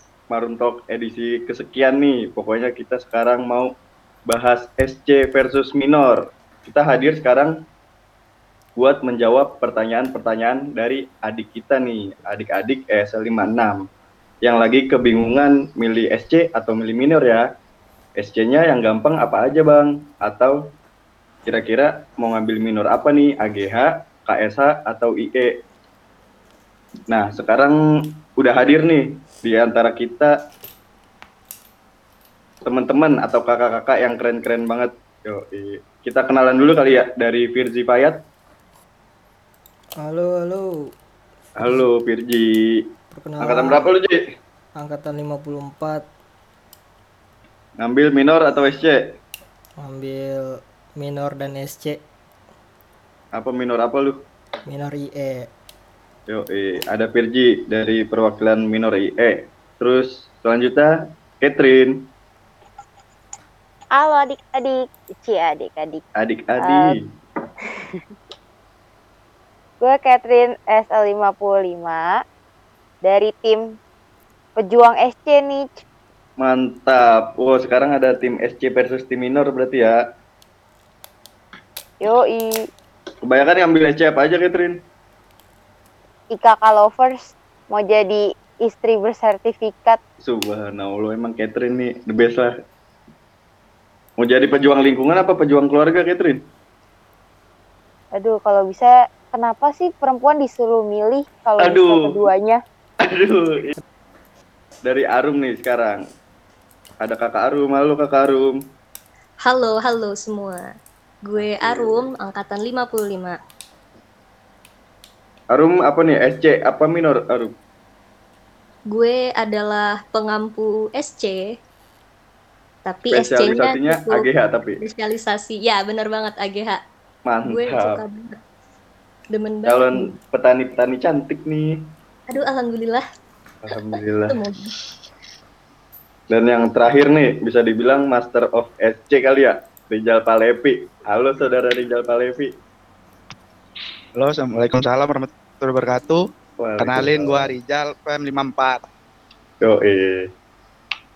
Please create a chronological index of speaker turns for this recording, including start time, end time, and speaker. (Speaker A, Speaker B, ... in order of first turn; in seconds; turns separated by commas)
Speaker A: 0.3-3.7, Speaker A: 4.3-7.6, Speaker A: 8.8-13.8, Speaker A: 14.4-17.5, Speaker A: 18.2-20.7, Speaker A: 21.5-25.6, Speaker A: 27.1-27.8, Speaker A: 28.3-30.4, Speaker A: 32.6-38.2, Speaker B: 40.0-40.9, Speaker A: 41.6-42.8, Speaker B: 43.1-43.9, Speaker A: 43.4-44.2, Speaker B: 44.8-46.1, Speaker A: 47.8-49.1, Speaker B: 49.8-52.0, Speaker A: 53.3-54.2, Speaker B: 54.7-55.5, Speaker A: 56.3-62.1, Speaker C: 63.9-66.0, Speaker A: 66.2-67.0, Speaker C: 66.6-67.0, Speaker C: 67.7-68.0, Speaker C: 69.8-72.2, Speaker C: 73.0-73.8, Speaker C: 74.6-75.8, Speaker A: 76.4-80.0, Speaker C: 82.0-82.6, Speaker A: 83.2-84.8, Speaker C: 86.3-90.0, Speaker A: 90.2-92.5, Speaker A: 94.2-96.4, Speaker C: 98.1-102.6, Speaker A: 101.6-102.0, Speaker A: 103.0-103.8, Speaker A: 104.8-106.0, Speaker A: 107.0-108.6, Speaker D: 109.4-110.7, Speaker D: 111.2-113.4, Speaker A: 111.4-112.1, Speaker A: 115.5-117.5, Speaker D: 118.9-121.6, Speaker D: 122.9-124.3, Speaker A: 123.1-124.8, Speaker D: 124.8-126.8, Speaker A: 127.3-128.0, Speaker D: 127.5-128.4, Speaker D: 129.3-130.1, Speaker A: 129.7-131.8, Speaker D: 132.3-133.1, Speaker A: 133.7-134.4, Speaker D: 133.9-134.8, Speaker A: 136.3-142.5, Speaker E: 144.2-146.2, Speaker A: 146.6-147.5, Speaker E: 146.8-148.8, Speaker A: 149.6-150.3